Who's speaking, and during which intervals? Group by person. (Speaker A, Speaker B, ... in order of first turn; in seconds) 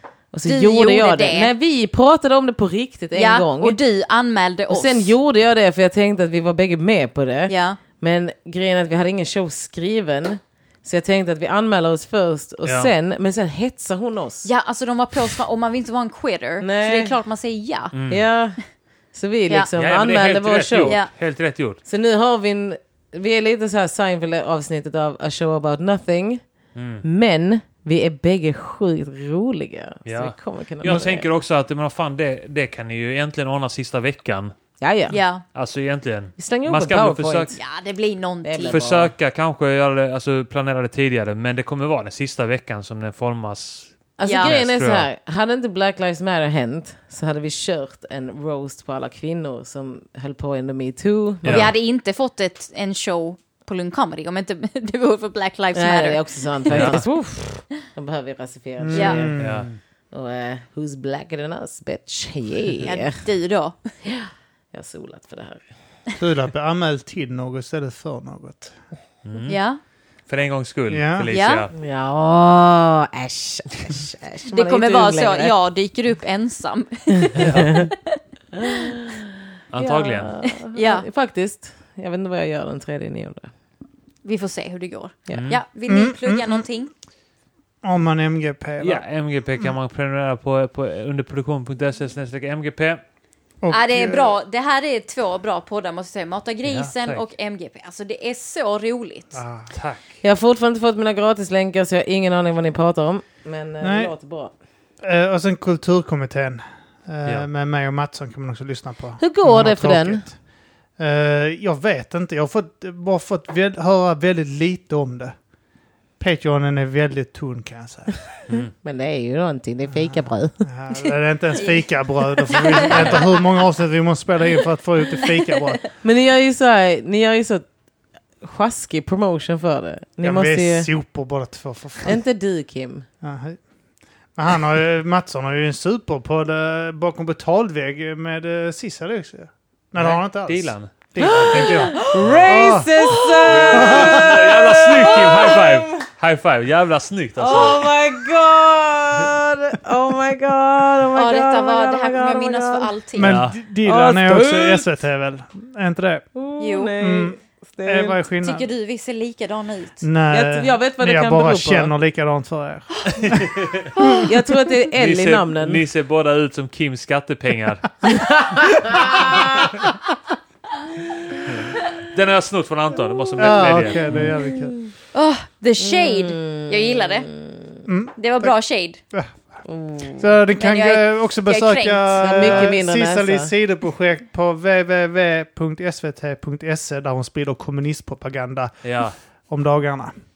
Speaker A: 0.3-3.8, 4.7-14.5, 16.6-17.1, 18.1-18.6, 19.1-21.0, 21.9-26.4, 27.0-31.3, 34.8-35.2, 36.4-37.6, 38.4-39.1, 44.2-51.7, 55.7-59.4, 60.1-63.2, 64.0-65.6, 71.7-75.5, 77.2-77.9, 78.5-83.5, 85.3-85.5, 100.2-104.5, 109.2-110.2, 118.8-120.6, 126.0-127.7, 128.4-130.9, 132.0-133.1, 141.2-146.0, 147.4-152.9, 156.3-158.2, 160.3-161.9, 164.2-165.8, 168.1-169.7, 174.7-174.9, 175.8-177.8, 179.7-180.2, 182.2-183.5
Speaker B: 0.5-1.5, 3.1-5.1, 7.5-7.8, 14.4-17.9, 20.9-21.1, 35.1-35.4, 37.6-38.8, 44.2-44.5, 51.5-57.0, 58.9-59.2, 62.9-63.9, 69.5-69.8, 71.3-71.7, 74.5-77.9, 80.6-81.1, 84.2-86.9, 93.7-99.4, 121.5-121.8, 122.4-123.4, 143.3-143.8, 151.1-153.3, 156.6-157.0, 158.4-160.1, 175.1-177.3, 178.2-179.0, 180.6-182.3
Speaker C: 12.7-12.9, 17.9-18.2, 19.8-21.8, 26.8-27.1, 30.1-34.5, 35.5-37.6, 38.6-45.1, 51.4-51.7, 59.4-59.7, 69.2-69.6, 70.3-71.7, 77.4-77.8, 79.7-80.3, 85.3-85.6, 88.8-93.0, 96.7-97.3, 99.7-100.1, 140.0-140.9, 142.1-142.5, 143.5-147.8, 153.2-154.9, 163.1-163.9, 164.9-167.9, 168.9-169.4, 171.5-174.3, 188.8-189.2
Speaker D: 58.8-59.7, 66.2-68.8, 70.9-71.3, 85.9-86.7, 87.8-89.0, 93.6-94.4, 99.3-99.7, 103.8-104.1, 105.0-110.4, 111.0-115.3, 116.2-118.2, 120.0-125.8, 130.2-132.2, 133.2-133.6, 134.4-142.9, 143.7-144.7, 153.2-156.3, 157.0-158.7, 160.0-164.1, 173.4-174.8, 177.9-178.6, 179.1-179.4, 180.2-188.8, 189.5-190.2